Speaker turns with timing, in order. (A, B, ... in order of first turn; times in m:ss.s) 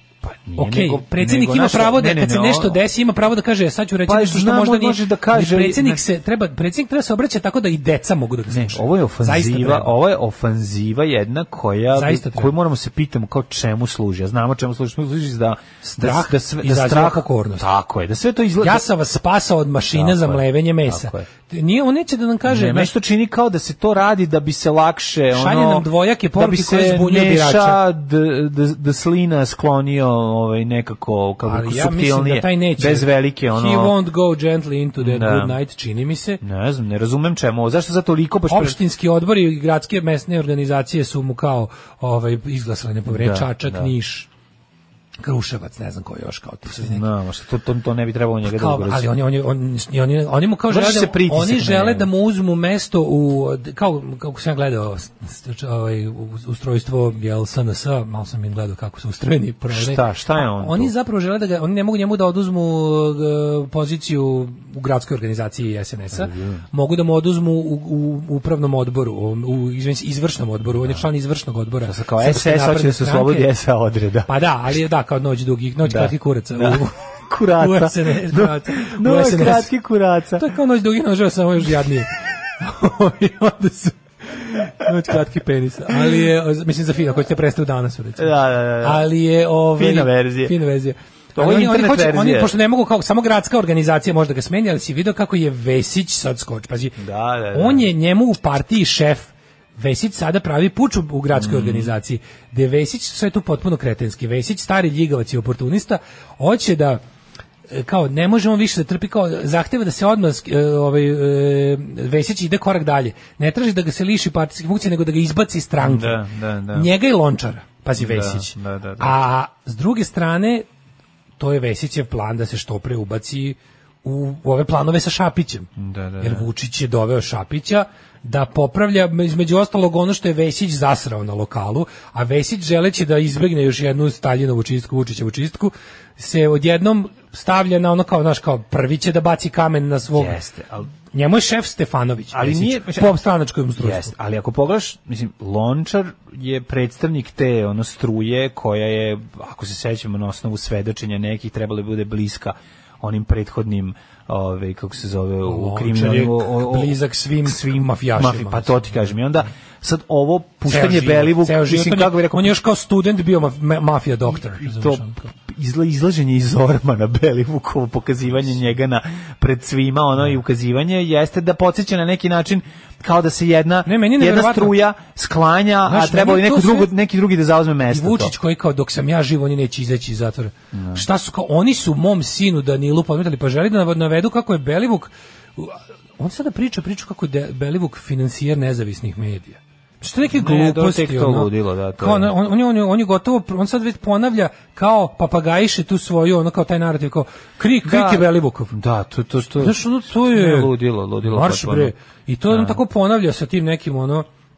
0:00.2-0:02.8 A
0:00.6-0:09.9 B
0:04.0-0:06.0 A
0:08.5-0:18.8 A
0:11.9-0:12.5 B
0:15.8-0:17.7 B
0:18.6-0:22.9 B
0:19.9-0:21.2 A
0:22.4-0:33.9 A
0:25.3-0:27.8 B
0:31.4-0:36.4 B
0:35.0-0:35.6 A
0:36.4-0:38.8 A
0:38.5-0:44.3 B
0:43.1-0:43.9 A
0:45.2-0:47.0 B
0:46.7-0:49.1 A
0:48.4-1:13.5 B
0:50.7-0:52.1 A
0:59.7-1:00.9 A
1:06.1-1:06.6 A
1:11.8-1:14.3 A
1:14.3-1:17.0 B
1:15.8-1:20.5 A
1:17.6-1:19.7 B
1:20.4-1:37.0 B
1:25.9-1:26.3 A
1:28.2-1:29.1 A
1:29.8-1:30.6 A
1:31.4-1:32.5 A
1:37.0-1:37.9 A
1:37.5-1:47.0 B
1:41.3-1:41.9 A
1:47.7-1:56.2 B
1:55.8-1:56.9 A
1:56.7-2:00.6 B
1:58.0-1:59.2 A
2:01.4-2:05.7 B
2:05.8-2:06.5 A
2:06.2-2:20.4 B
2:20.1-2:20.9 A
2:21.1-2:24.1 B
2:22.3-2:23.2 A
2:23.8-2:42.6 A
2:35.4-2:39.1 B
2:40.7-2:45.3 B
2:44.3-2:58.3 A
2:53.8-2:54.8 B
2:55.8-2:56.9 B
2:57.9-3:18.7 B
3:00.7-3:01.0 A
3:10.3-3:12.3 A
3:17.8-3:21.9 A
3:19.6-3:24.2 B
3:22.5-3:22.8 A